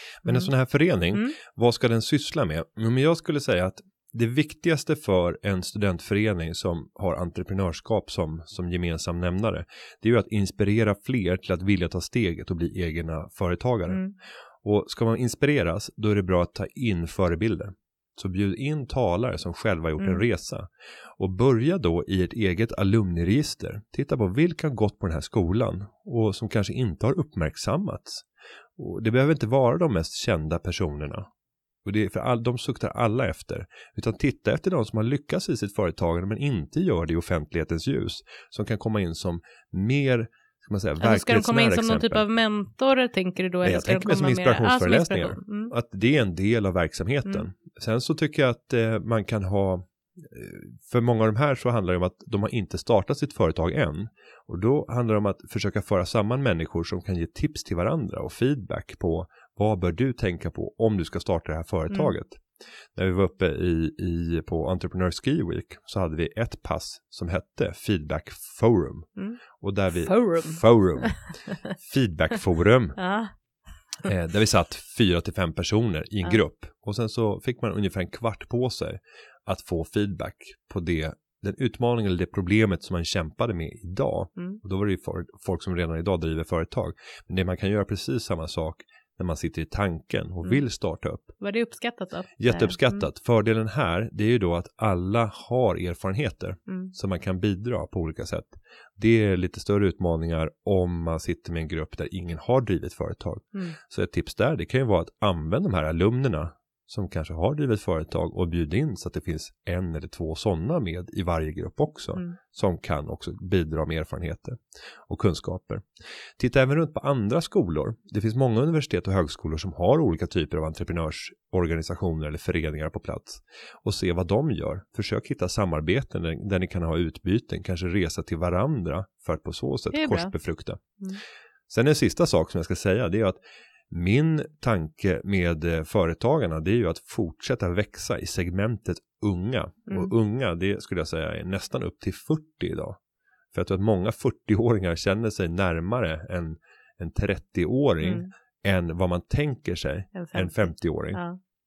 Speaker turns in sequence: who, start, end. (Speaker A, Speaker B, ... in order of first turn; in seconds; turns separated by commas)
Speaker A: 0.2-14.0, Speaker B: 0.2-0.5, Speaker B: 13.9-14.1, Speaker A: 14.6-28.3, Speaker B: 20.0-20.2, Speaker A: 28.8-31.3, Speaker A: 31.9-42.2, Speaker B: 41.0-45.7, Speaker A: 43.6-62.4, Speaker A: 63.0-69.1, Speaker A: 69.6-73.0, Speaker B: 70.0-71.1, Speaker B: 73.0-73.3, Speaker A: 74.0-91.3, Speaker B: 91.4-93.0, Speaker A: 92.4-115.9, Speaker A: 116.4-130.8, Speaker B: 129.9-130.3, Speaker A: 131.7-133.4, Speaker A: 133.9-143.0, Speaker B: 139.9-140.1, Speaker A: 143.5-151.2, Speaker B: 148.0-148.3, Speaker B: 150.2-151.4